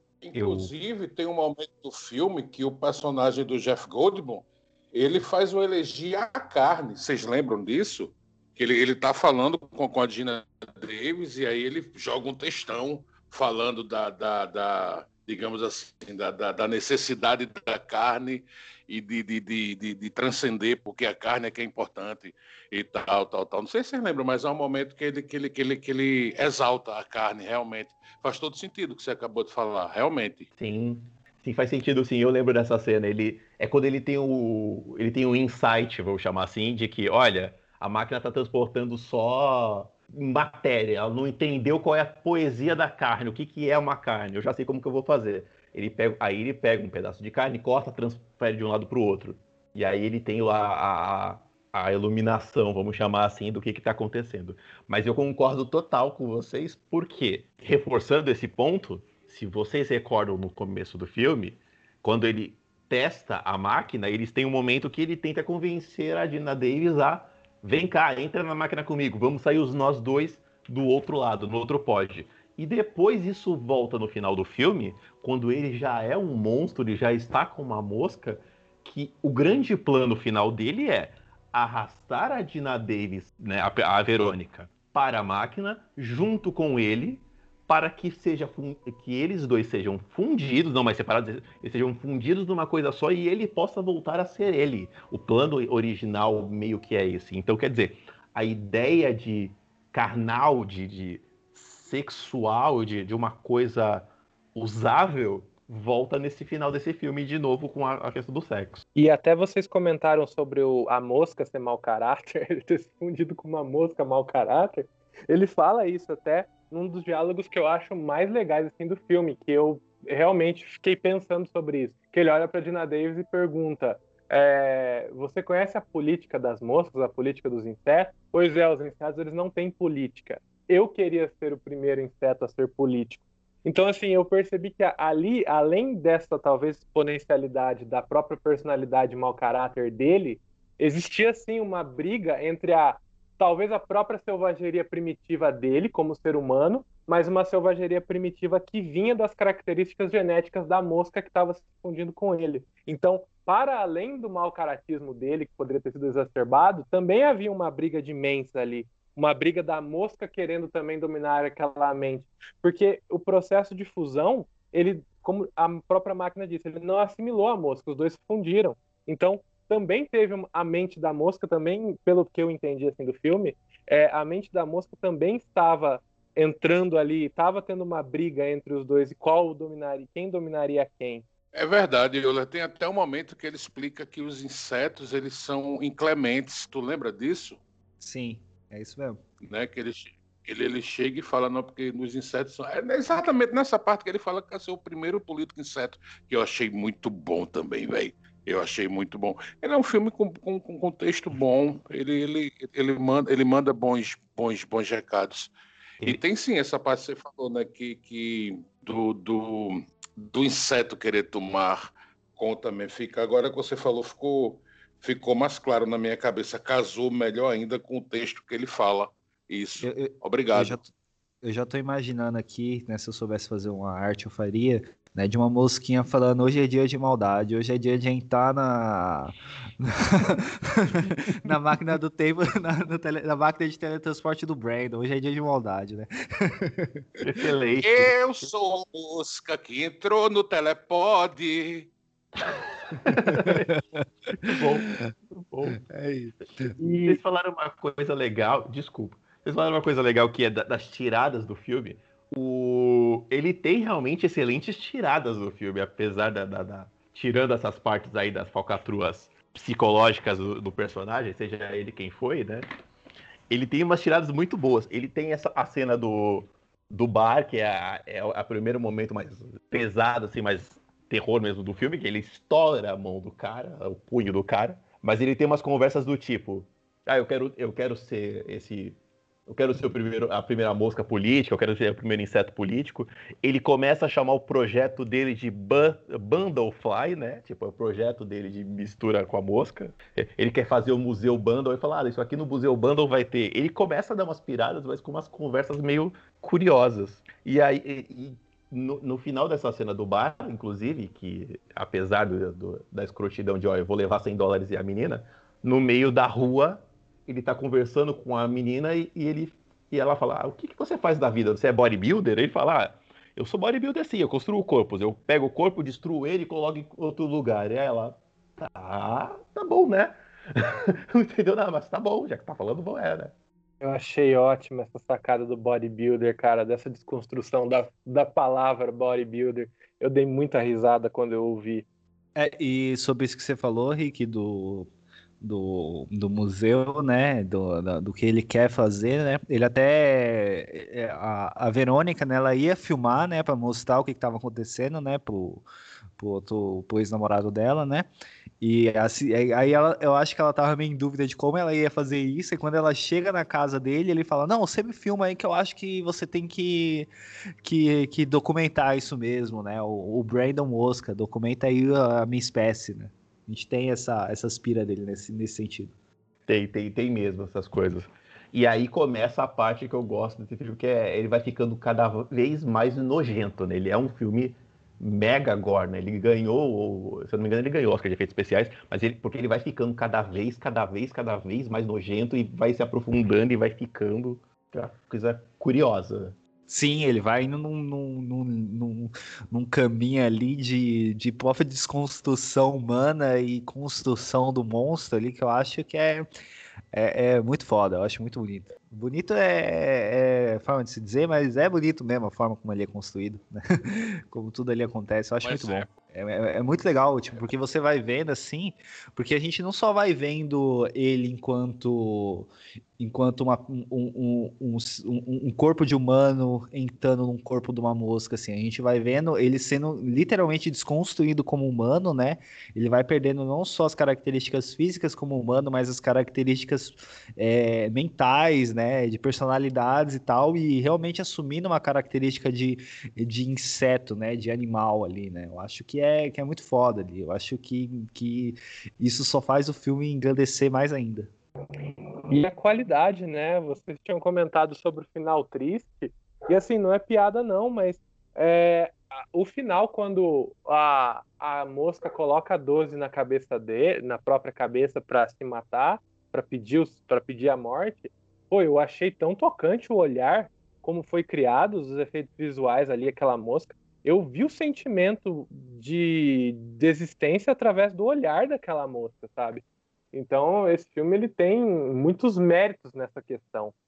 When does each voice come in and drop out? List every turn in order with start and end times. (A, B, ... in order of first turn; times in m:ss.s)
0:00.2-0:30.5 A
0:00.4-0:00.7 B
0:30.6-1:48.8 B
1:49.0-3:01.2 C
3:01.5-3:07.6 A
3:08.0-3:09.2 D
3:09.4-3:25.5 A
3:26.0-3:40.8 A
3:39.8-3:40.9 D
3:41.4-3:57.3 D
3:57.2-3:58.5 B
3:57.8-4:01.9 A
4:02.4-4:03.8 B
4:03.0-4:05.0 D
4:04.4-4:05.8 B
4:05.7-4:06.7 D
4:06.6-4:22.7 B
4:06.8-4:07.2 C
4:23.5-5:23.3 B
5:23.8-5:31.9 C
5:32.4-5:34.9 D
5:35.4-5:45.6 D
5:46.2-5:48.1 D
5:48.6-5:57.1 D
5:57.6-6:05.9 D
6:06.5-6:26.4 B
6:26.7-6:36.3 D
6:36.9-7:21.3 D
6:45.4-6:45.9 A
7:22.3-7:53.7 C